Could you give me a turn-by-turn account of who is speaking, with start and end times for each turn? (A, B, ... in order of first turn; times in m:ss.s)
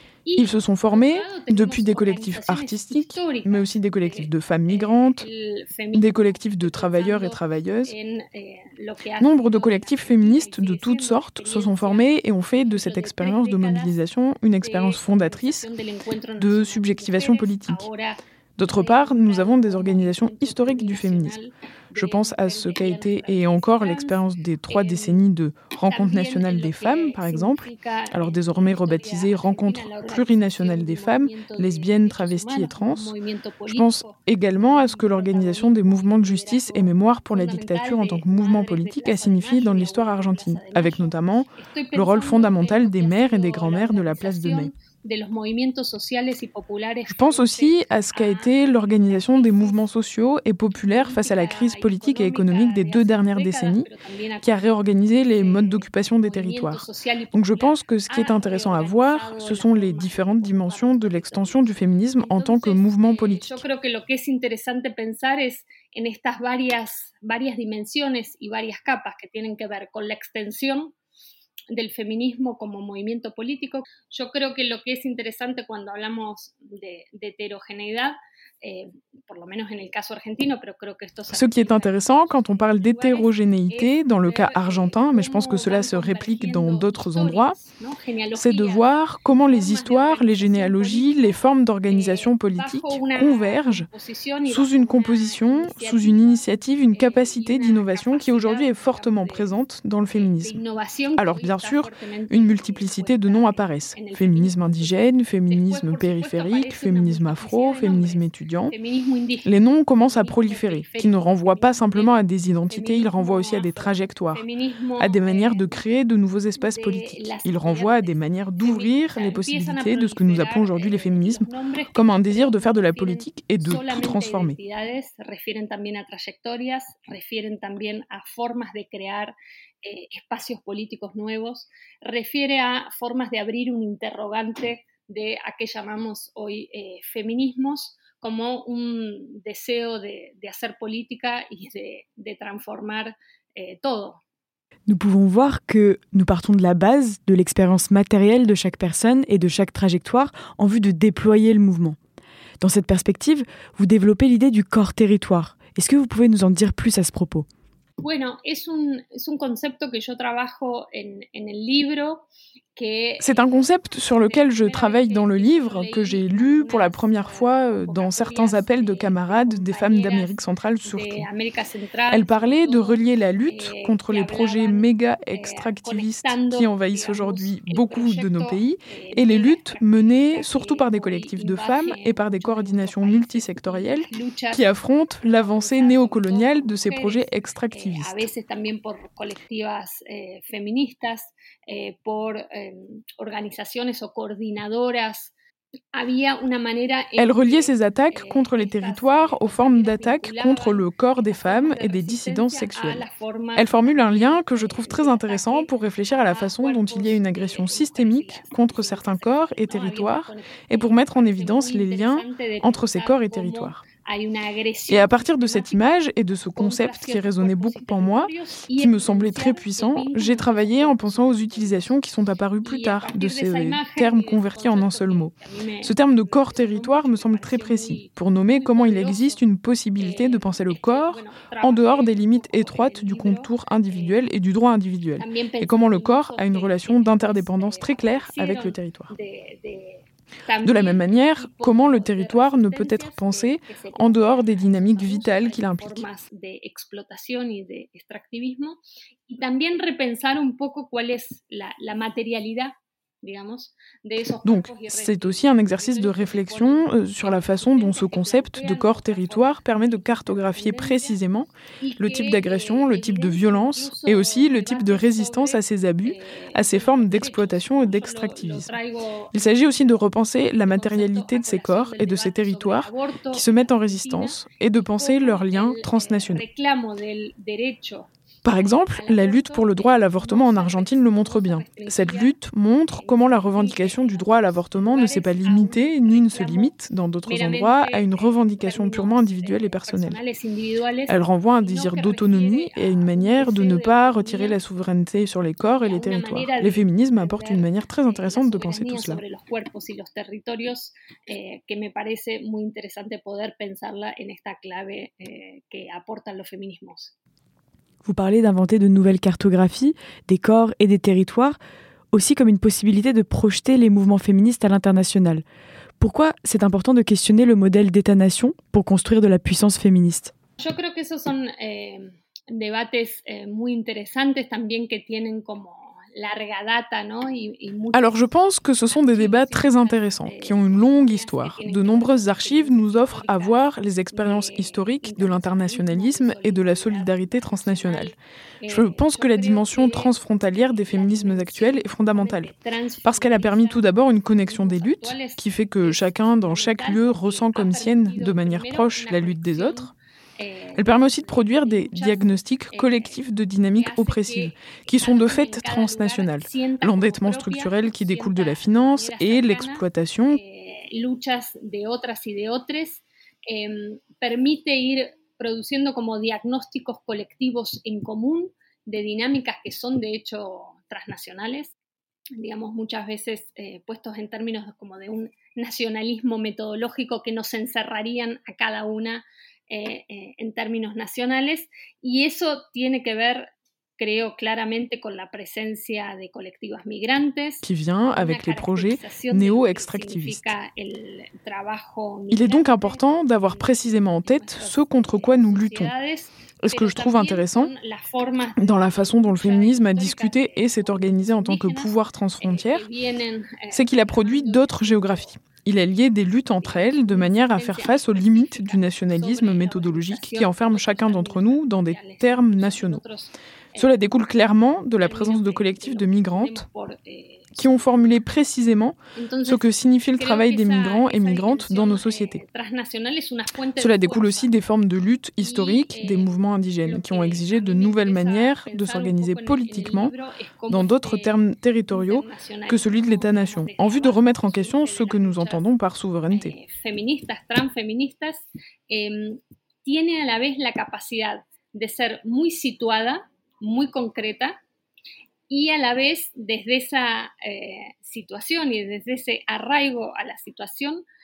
0:00.2-0:12.1 A
0:00.4-0:05.2 B
0:05.9-0:07.9 B
0:09.2-0:15.7 B
0:12.6-0:13.9 A
0:14.6-0:25.3 A
0:16.4-0:17.8 B
0:18.6-0:21.4 B
0:21.9-0:33.1 B
0:25.8-0:49.9 A
0:33.7-0:44.7 B
0:47.1-0:53.9 B
0:50.8-1:10.9 A
0:54.4-1:03.6 B
1:11.7-1:39.5 A
1:21.3-1:27.6 B
1:28.3-1:33.9 B
1:34.4-1:40.6 B
1:40.1-1:55.7 A
1:41.2-1:48.7 B
1:49.4-1:54.4 B
1:55.0-2:04.6 B
1:56.6-2:24.2 A
2:24.9-2:32.0 C
2:32.6-2:37.4 C
2:38.0-2:42.2 A
2:42.8-3:04.6 A
2:43.2-2:51.3 B
2:52.1-3:08.2 B
3:05.2-3:15.3 A
3:15.9-3:35.9 A
3:17.2-3:23.0 B
3:23.6-3:33.8 B
3:34.9-3:59.1 B
3:36.5-3:41.8 A
3:42.6-3:49.4 A
3:50.0-3:54.2 A
3:55.2-4:21.2 A
4:00.6-4:06.0 B
4:14.4-4:21.5 B
4:21.8-4:29.4 A
4:22.0-4:28.7 B
4:29.3-4:36.4 B
4:30.6-4:42.3 A
4:38.4-4:50.2 B
4:42.9-4:46.7 A
4:47.2-4:54.6 A
4:51.1-4:59.2 B
4:55.8-5:07.1 A
5:08.0-5:11.6 C
5:12.1-5:15.4 C
5:16.0-5:20.3 C
5:20.6-5:28.3 A
5:27.9-5:38.2 B
5:28.9-5:53.2 A
5:38.7-5:42.5 B
5:43.0-5:49.9 B
5:50.8-6:00.4 B
5:53.8-6:11.7 A
6:12.4-6:41.9 A
6:27.6-6:30.4 B
6:32.3-6:35.9 B
6:36.6-6:37.7 B
6:38.6-6:42.8 B
6:42.4-6:45.3 A
6:43.7-6:53.0 B
6:46.6-6:54.0 A
6:53.8-6:56.6 B
6:55.0-6:58.2 A
6:57.6-7:02.4 B
6:59.1-7:04.5 A
7:03.8-7:10.1 B
7:05.4-7:06.3 A
7:06.8-7:15.6 A
7:10.7-7:16.5 B
7:16.3-7:24.5 A
7:25.5-7:31.0 A